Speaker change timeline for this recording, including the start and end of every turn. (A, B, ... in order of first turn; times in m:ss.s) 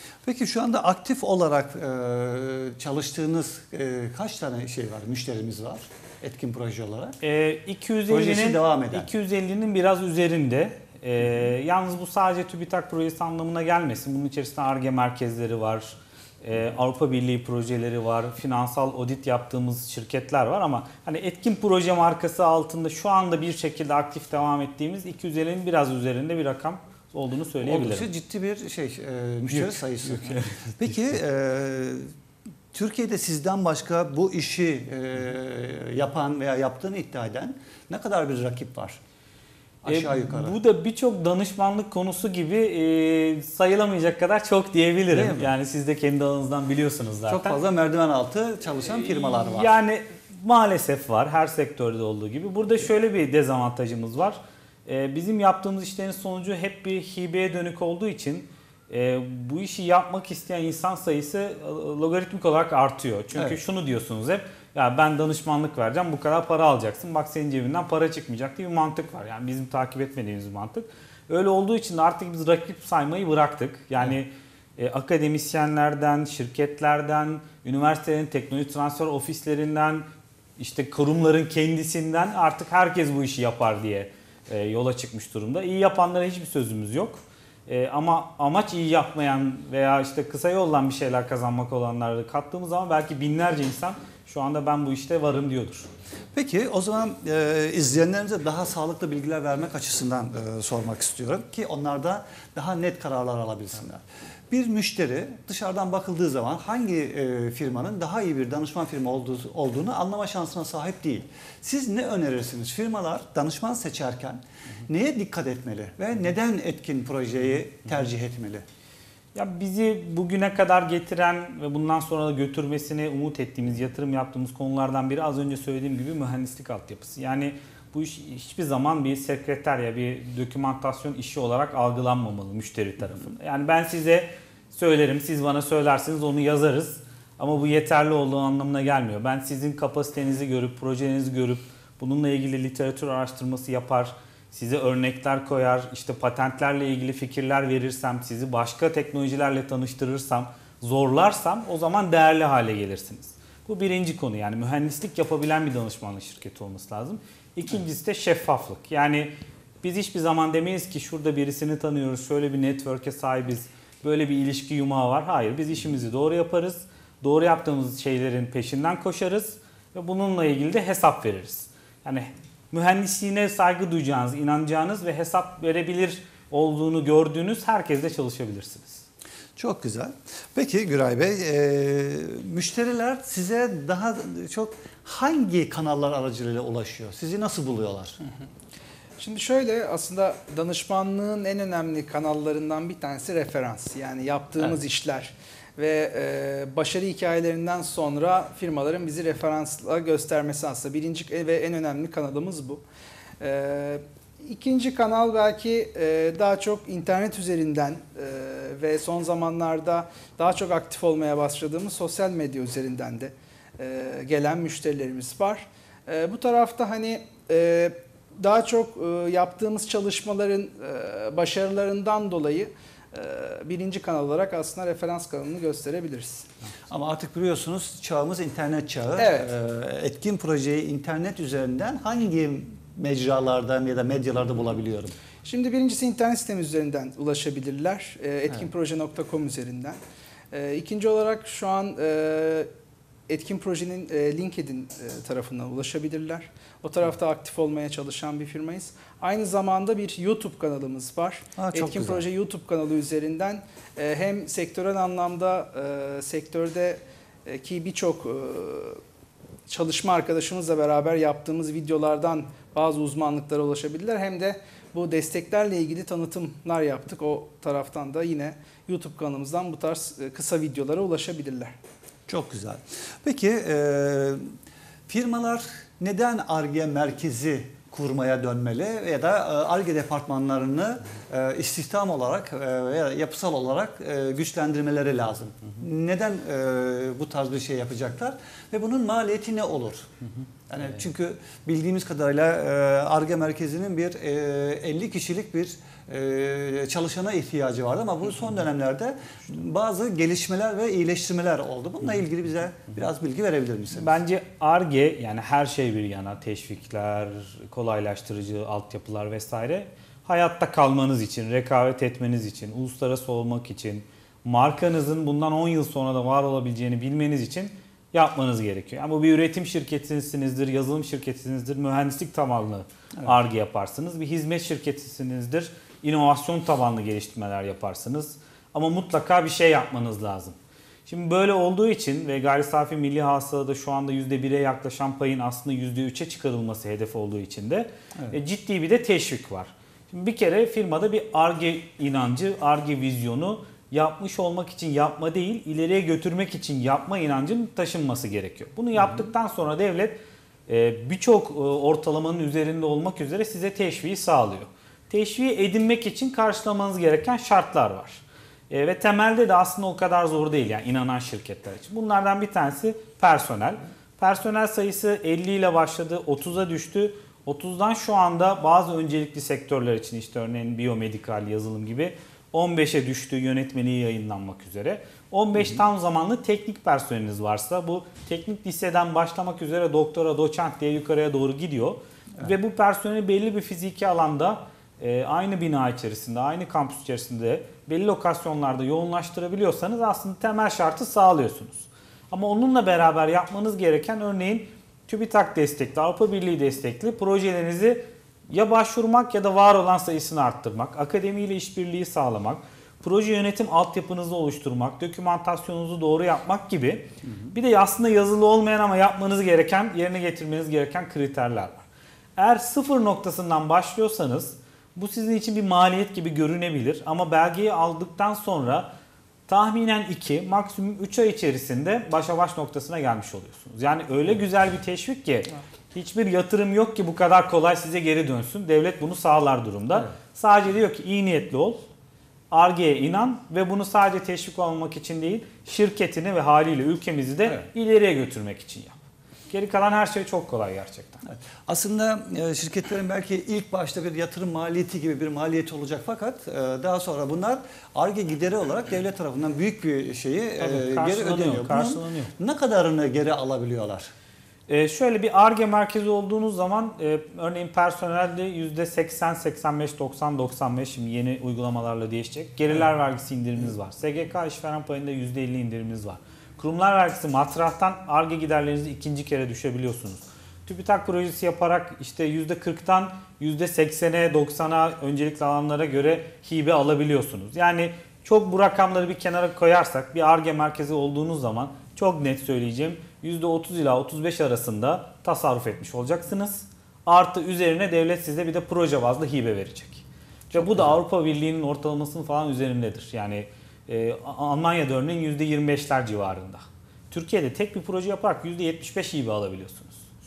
0:00.2-0:07.2 A
0:07.2-0:28.1 B
0:08.1-0:09.1 A
0:27.6-0:32.1 A
0:29.5-0:31.2 B
0:32.7-0:39.0 A
0:39.8-0:40.6 A
0:39.9-0:47.6 B
0:45.1-0:45.5 A
0:47.3-0:49.7 A
0:48.9-1:20.0 B
1:20.6-1:35.9 B
1:36.3-1:58.6 A
1:59.3-2:39.3 B
2:39.8-2:59.0 B
2:59.6-3:08.2 A
3:09.2-3:22.8 C
3:23.4-3:46.5 C
3:46.9-3:55.2 A
3:49.2-3:49.5 C
3:55.4-4:00.0 C
4:00.5-4:02.7 C
4:03.3-4:19.0 C
4:11.6-4:12.2 A
4:19.7-4:31.7 C
4:32.3-4:34.5 A
4:35.1-4:50.1 A
4:50.7-5:04.2 A
5:03.9-5:30.6 B
5:31.1-6:51.8 B
6:52.4-6:58.9 B
6:59.5-7:11.8 B
7:12.5-7:18.9 B
7:19.5-7:21.2 B
7:21.2-7:34.1 A
7:30.6-7:32.3 B
7:34.7-8:20.0 B
8:10.5-8:11.0 A